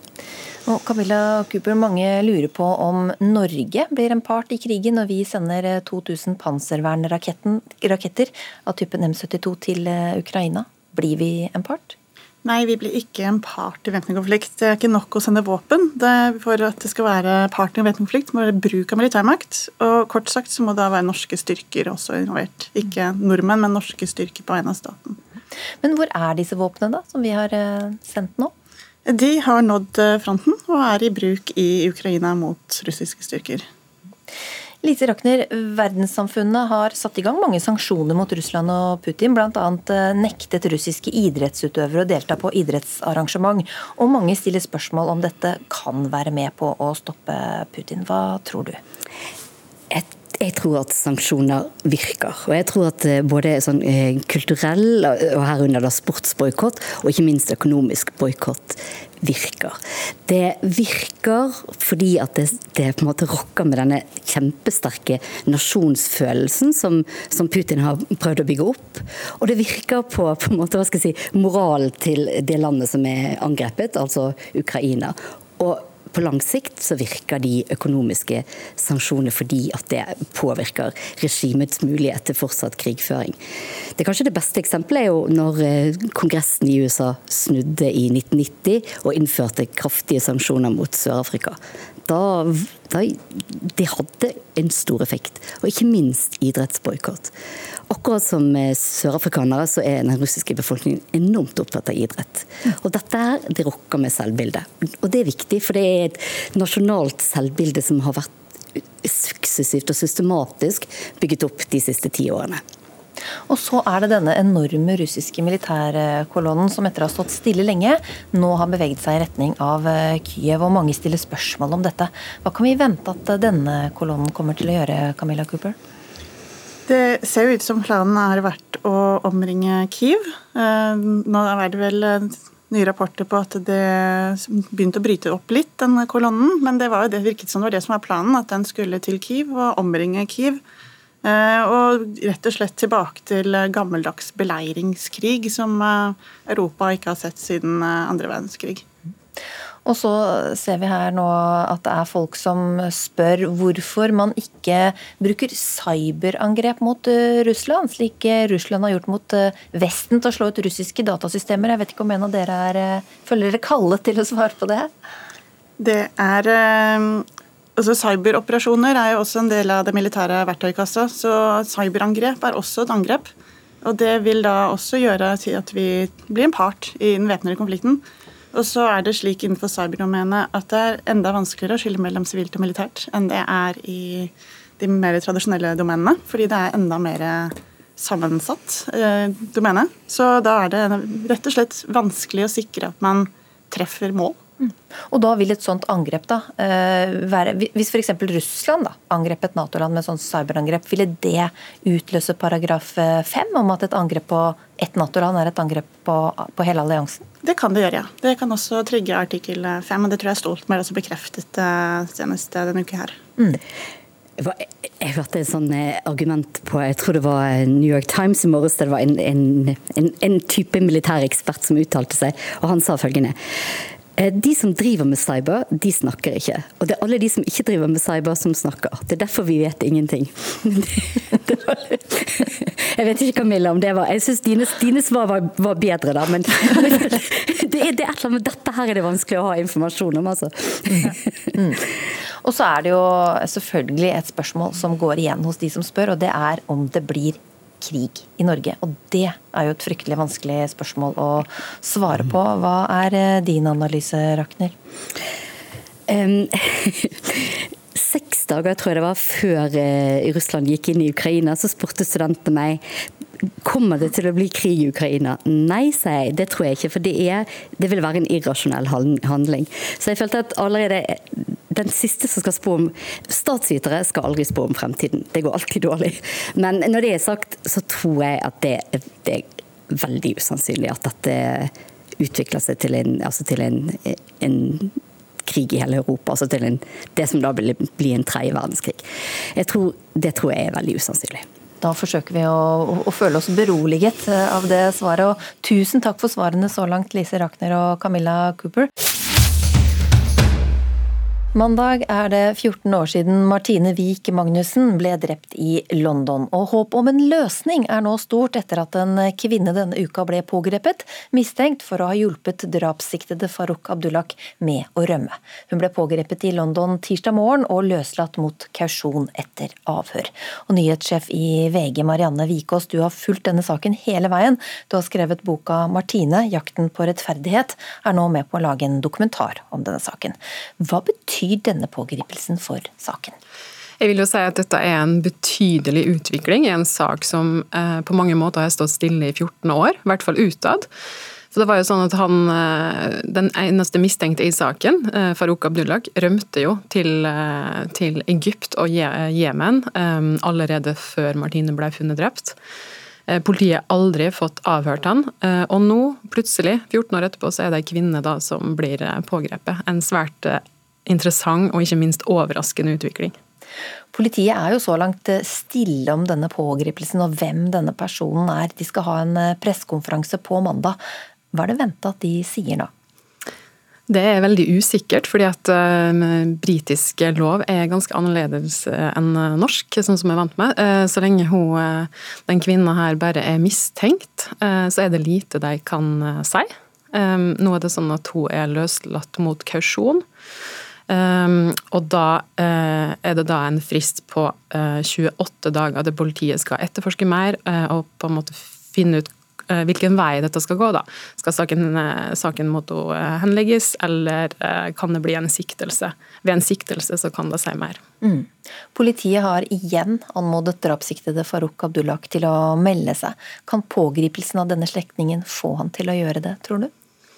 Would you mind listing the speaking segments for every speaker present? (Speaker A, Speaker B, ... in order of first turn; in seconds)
Speaker A: 0.6-12.0, 25.8-28.5, 34.8-48.8, 113.5-125.8, 149.8-164.9, 194.6-207.3, 240.9-241.8, 242.4-254.8, 291.8-298.9, 301.5-333.4, 364.1-372.9, 408.2-416.9
Speaker B: 12.4-25.2, 29.1-33.7, 126.8-140.6, 141.2-148.8, 165.8-167.2, 167.8-173.3, 173.8-194.4, 207.4-213.2
Speaker C: 49.9-83.4, 84.0-97.3, 97.9-112.6, 214.4-241.2, 256.1-262.8, 263.6-289.0, 289.5-291.4
Speaker D: 334.0-340.9, 341.5-352.6, 353.3-363.3, 374.1-390.2, 391.1-408.0